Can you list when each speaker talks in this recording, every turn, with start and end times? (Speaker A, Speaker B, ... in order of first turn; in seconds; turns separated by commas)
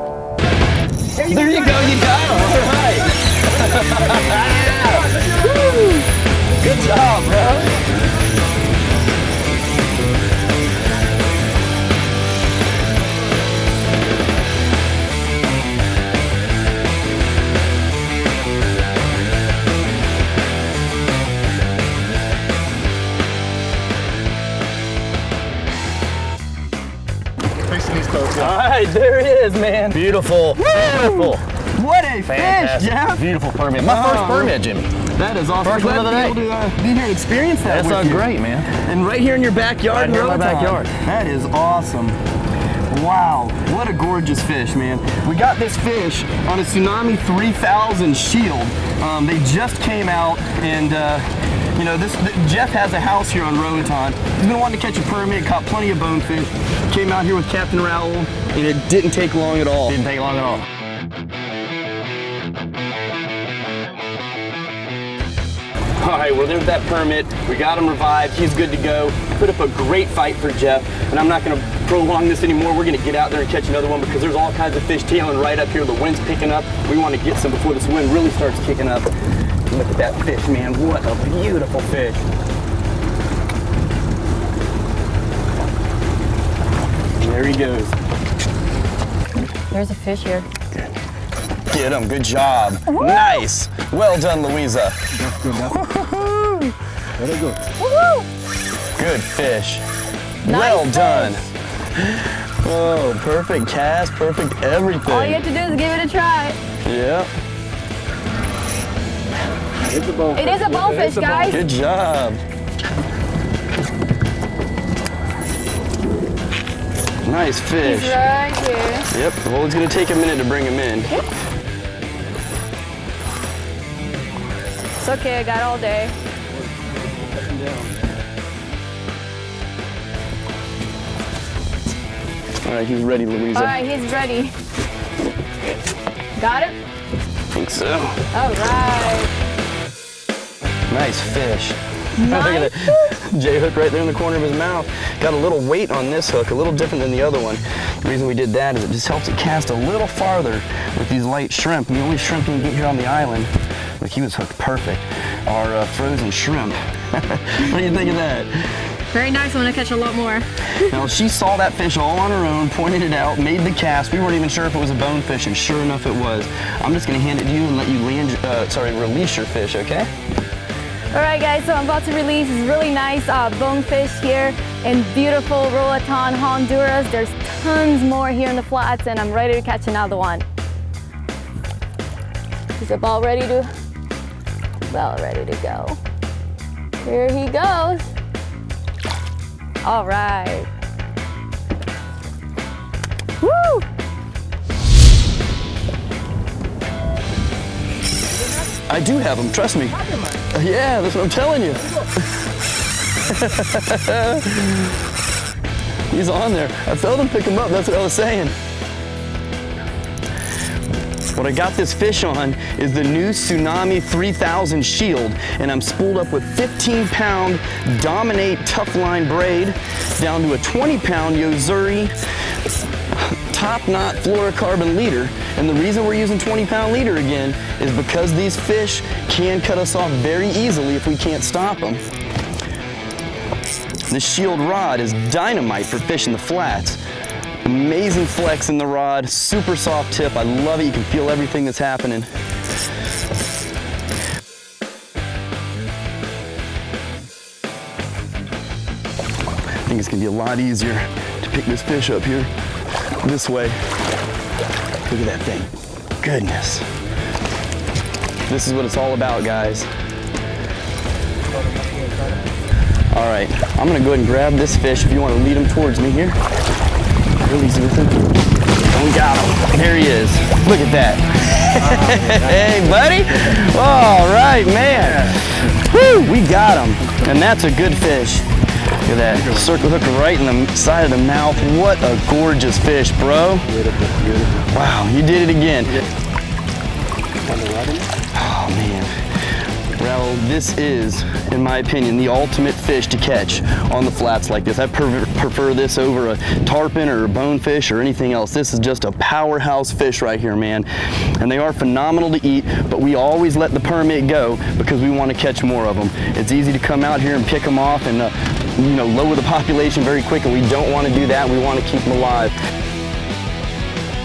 Speaker A: 1.2-6.0, Speaker A: 6.6-7.8, Speaker B: 27.8-28.2, Speaker A: 28.2-30.0, Speaker C: 29.9-31.4, Speaker A: 30.6-33.2, Speaker C: 32.3-34.9, Speaker A: 33.8-42.2, Speaker C: 35.6-36.4, Speaker C: 37.6-38.7, Speaker C: 39.9-40.9, Speaker A: 42.9-60.0, Speaker C: 59.9-60.6, Speaker A: 66.0-79.1, Speaker A: 79.7-82.2, Speaker A: 87.1-88.0, Speaker D: 89.7-90.4, Speaker A: 91.7-96.7, Speaker D: 93.0-93.4, Speaker B: 97.2-97.6, Speaker D: 97.8-98.3, Speaker A: 99.0-99.8, Speaker A: 100.4-105.4, Speaker D: 100.4-101.5, Speaker D: 105.0-106.6, Speaker A: 106.8-107.3, Speaker B: 110.0-111.2, Speaker D: 110.3-111.6, Speaker A: 111.5-112.4, Speaker A: 117.2-118.2, Speaker D: 117.8-119.1, Speaker A: 119.1-121.1, Speaker D: 125.0-126.1, Speaker A: 132.6-133.7, Speaker D: 133.5-134.5, Speaker D: 136.4-136.8, Speaker A: 137.5-138.2, Speaker D: 138.3-139.3, Speaker A: 140.9-158.5, Speaker D: 142.2-143.1, Speaker D: 159.1-160.5, Speaker A: 160.8-170.1, Speaker D: 171.1-180.4, Speaker D: 182.8-183.7, Speaker D: 184.9-186.0, Speaker D: 187.0-188.1, Speaker D: 189.8-190.7, Speaker D: 193.4-193.8, Speaker A: 198.9-202.1, Speaker A: 203.2-205.0, Speaker A: 206.1-208.5, Speaker A: 211.3-222.1, Speaker A: 223.1-232.0, Speaker A: 234.1-237.0, Speaker A: 237.6-242.3, Speaker A: 249.8-252.5, Speaker A: 253.2-253.8, Speaker A: 255.1-256.9, Speaker A: 258.5-259.9, Speaker A: 263.1-266.4, Speaker A: 267.4-268.2, Speaker A: 268.9-278.5, Speaker A: 279.0-283.8, Speaker A: 284.4-285.9, Speaker B: 287.5-288.1, Speaker A: 288.3-289.1, Speaker A: 289.9-312.5